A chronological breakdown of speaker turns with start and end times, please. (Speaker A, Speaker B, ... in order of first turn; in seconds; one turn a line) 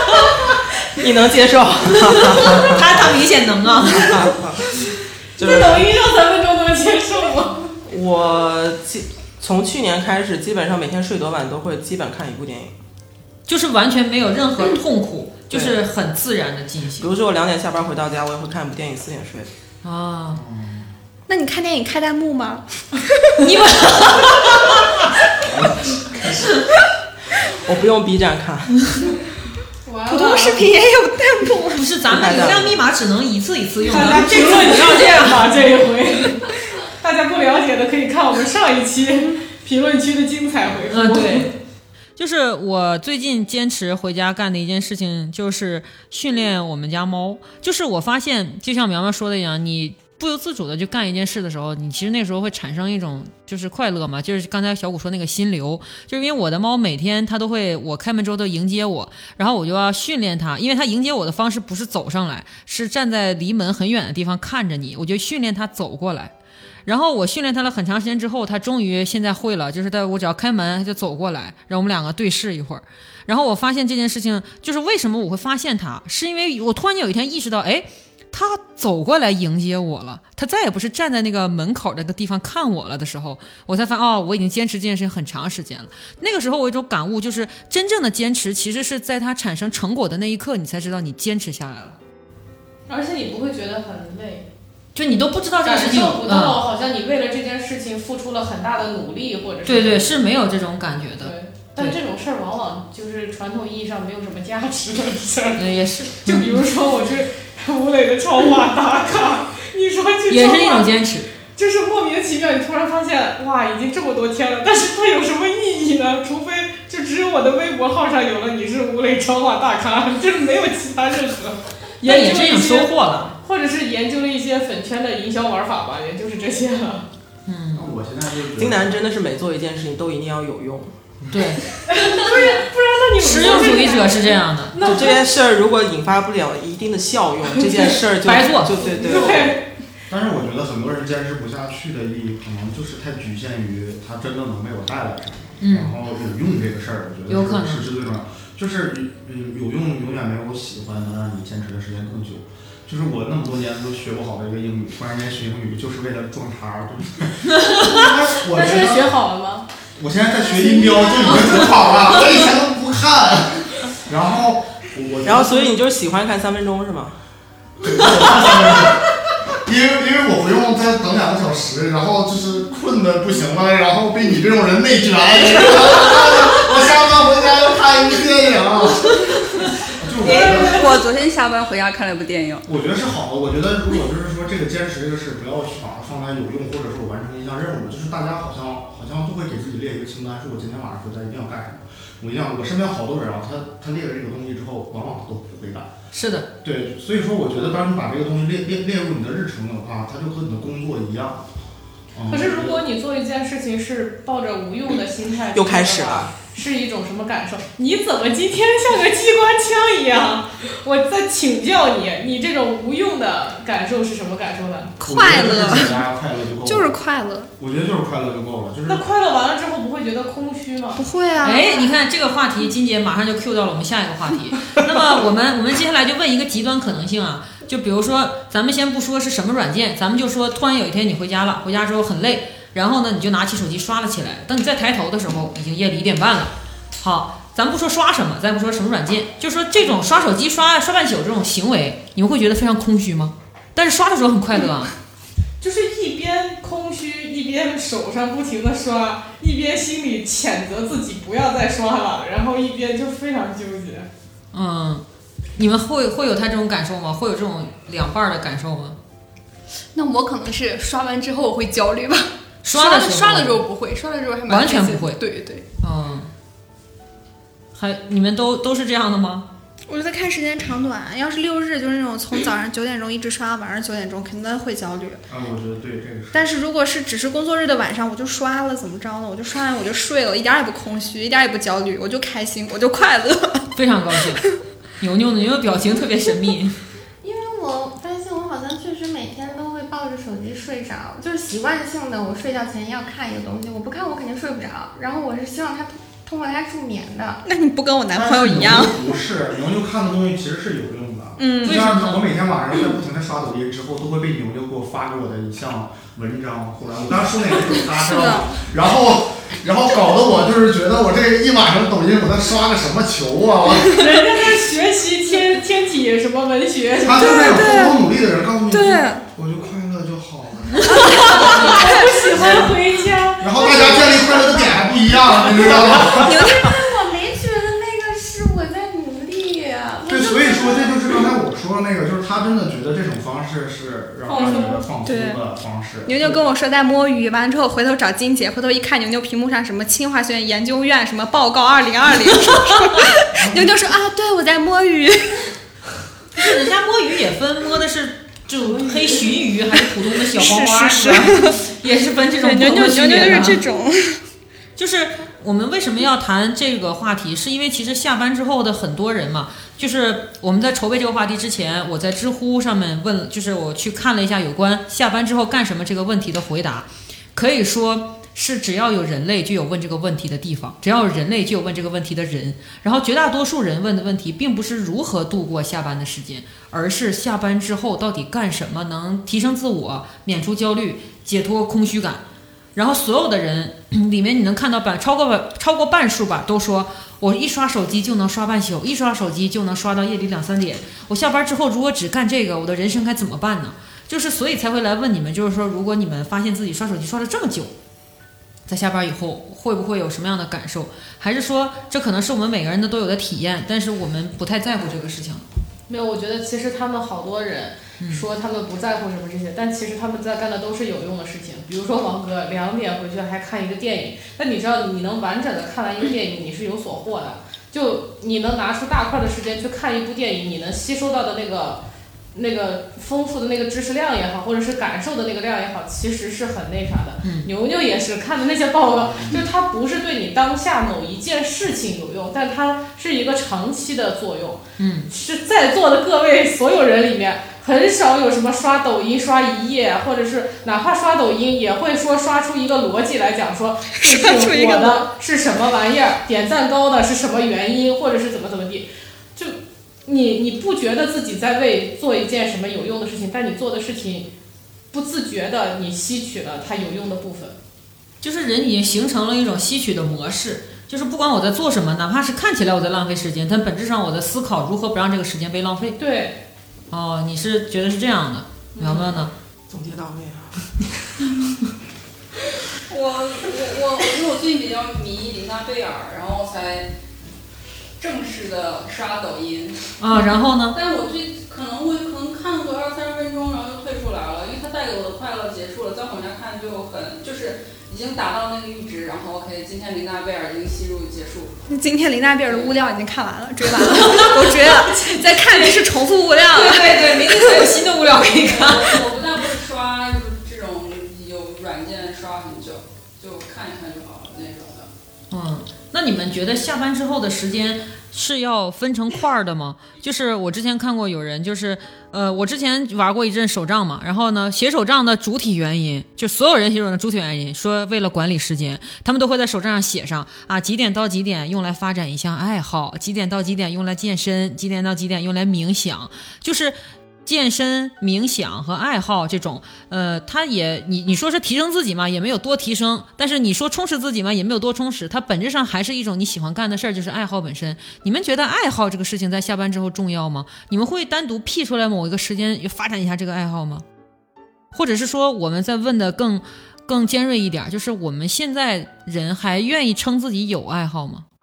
Speaker A: 1.0-3.0
Speaker B: 2.5-4.3
Speaker A: 3.9-4.7
Speaker A: 5.4-5.9
Speaker C: 5.4-7.6
Speaker A: 7.8-12.7
Speaker B: 13.5-17.1
Speaker A: 15.5-15.8
Speaker A: 17.0-19.5
Speaker B: 19.8-20.4
Speaker D: 20.3-20.9
Speaker E: 21.3-22.6
Speaker B: 23.4-25.0
Speaker D: 25.4-26.5
Speaker A: 27.6-28.9
Speaker C: 29.8-30.6
Speaker E: 30.1-31.9
Speaker B: 31.8-35.5
Speaker A: 32.0-32.8
Speaker C: 33.9-41.5
Speaker B: 40.9-41.5
Speaker B: 42.2-66.3
Speaker B: 66.8-92.0
Speaker C: 92.9-94.5
Speaker B: 94.9-96.6
Speaker C: 95.6-100.1
Speaker B: 99.6-102.0
Speaker C: 101.2-110.9
Speaker B: 105.5-106.6
Speaker B: 110.3-111.3
Speaker C: 111.4-127.1
Speaker B: 122.0-123.4
Speaker B: 127.5-127.9
Speaker D: 127.7-129.0
Speaker A: 128.6-130.9
Speaker D: 131.2-131.6
Speaker B: 131.3-131.6
Speaker C: 131.8-135.3
Speaker B: 133.2-134.8
Speaker A: 134.8-139.6
Speaker C: 137.6-137.9
Speaker B: 138.2-138.9
Speaker C: 138.8-139.7
Speaker D: 140.1-159.1
Speaker B: 145.6-145.9
Speaker B: 147.3-147.9
Speaker C: 158.4-159.7
Speaker D: 159.9-165.7
Speaker A: 165.2-167.2
Speaker D: 167.8-179.3
Speaker D: 179.9-180.9
Speaker F: 180.2-182.6
Speaker C: 180.3-180.9
Speaker D: 182.6-195.9
Speaker B: 196.1-196.5
Speaker D: 196.6-201.5
Speaker D: 202.1-202.8
Speaker C: 202.3-214.9
Speaker A: 205.5-206.3
Speaker E: 215.0-216.0
Speaker D: 215.0-216.9
Speaker E: 216.6-217.5
Speaker D: 217.6-219.0
Speaker C: 218.9-221.0
Speaker E: 220.9-221.9
Speaker B: 221.4-244.9
Speaker C: 245.6-254.1
Speaker B: 254.5-255.0
Speaker B: 255.6-259.0
Speaker G: 259.9-265.6
Speaker B: 262.6-263.6
Speaker B: 264.5-265.2
Speaker B: 265.8-266.3
Speaker B: 267.7-269.5
Speaker E: 269.9-275.2
Speaker D: 275.3-276.5
Speaker E: 276.3-283.7
Speaker B: 283.7-284.4
Speaker B: 285.0-286.8
Speaker H: 287.2-297.4
Speaker E: 297.4-299.0
Speaker D: 298.1-314.1
Speaker E: 301.4-301.8
Speaker B: 301.6-302.2
Speaker E: 308.0-308.5
Speaker C: 314.0-317.8
Speaker D: 317.0-322.7
Speaker E: 317.2-318.0
Speaker E: 318.7-319.2
Speaker E: 320.8-322.6
Speaker C: 321.3-323.6
Speaker D: 323.4-326.4
Speaker H: 323.6-324.2
Speaker H: 326.0-331.1
Speaker E: 326.1-326.7
Speaker D: 330.1-336.4
Speaker C: 334.3-334.7
Speaker H: 334.4-334.7
Speaker E: 335.0-335.4
Speaker E: 336.0-345.4
Speaker D: 343.4-343.7
Speaker B: 346.4-353.6
Speaker E: 350.3-351.7
Speaker E: 352.4-354.2
Speaker B: 354.8-382.2
Speaker B: 382.7-397.7
Speaker B: 398.7-405.4
Speaker C: 405.9-421.8
Speaker B: 408.0-408.2
Speaker C: 422.3-454.3
Speaker B: 427.2-427.5
Speaker D: 429.0-429.4
Speaker B: 434.8-435.1
Speaker E: 443.9-445.1
Speaker C: 454.9-457.6
Speaker B: 458.2-466.0
Speaker C: 466.0-466.4
Speaker B: 466.9-469.3
Speaker C: 468.8-469.1
Speaker A: 469.7-470.6
Speaker F: 472.9-476.9
Speaker F: 478.0-479.9
Speaker B: 480.0-480.8
Speaker F: 480.7-491.5
Speaker E: 491.7-497.6
Speaker F: 492.4-492.8
Speaker F: 494.1-494.6
Speaker F: 495.4-495.7
Speaker F: 496.5-504.9
Speaker B: 496.9-498.9
Speaker B: 505.3-543.8
Speaker B: 544.7-551.2